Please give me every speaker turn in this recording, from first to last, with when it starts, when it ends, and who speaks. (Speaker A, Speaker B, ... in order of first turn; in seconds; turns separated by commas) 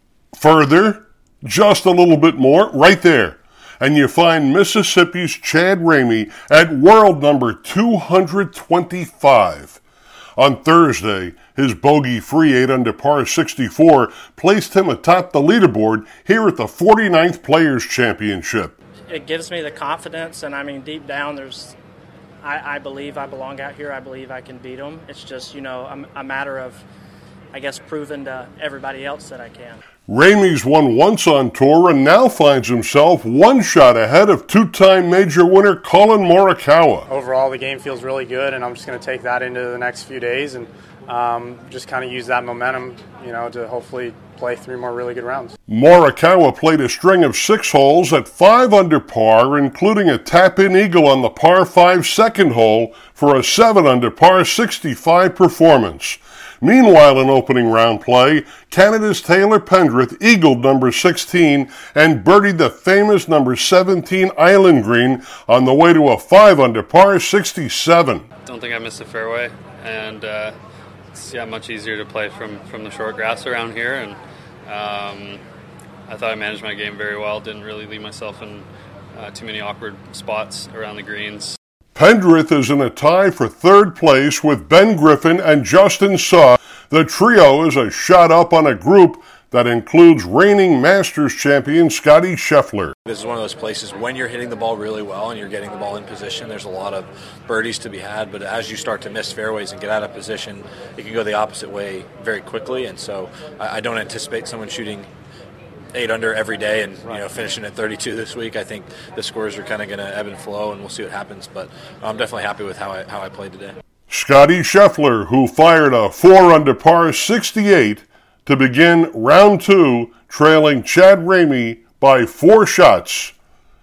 Speaker A: 0.3-9.8, Speaker A: 10.4-18.7, Speaker B: 19.1-21.7, Speaker B: 22.4-26.8, Speaker B: 27.5-29.8, Speaker A: 30.1-37.1, Speaker C: 37.1-45.5, Speaker A: 45.7-68.2, Speaker D: 68.5-70.5, Speaker D: 71.1-74.2, Speaker D: 74.7-75.4, Speaker D: 76.1-81.5, Speaker A: 81.9-92.9, Speaker E: 93.0-105.1, Speaker E: 105.9-113.8, Speaker A: 114.1-123.3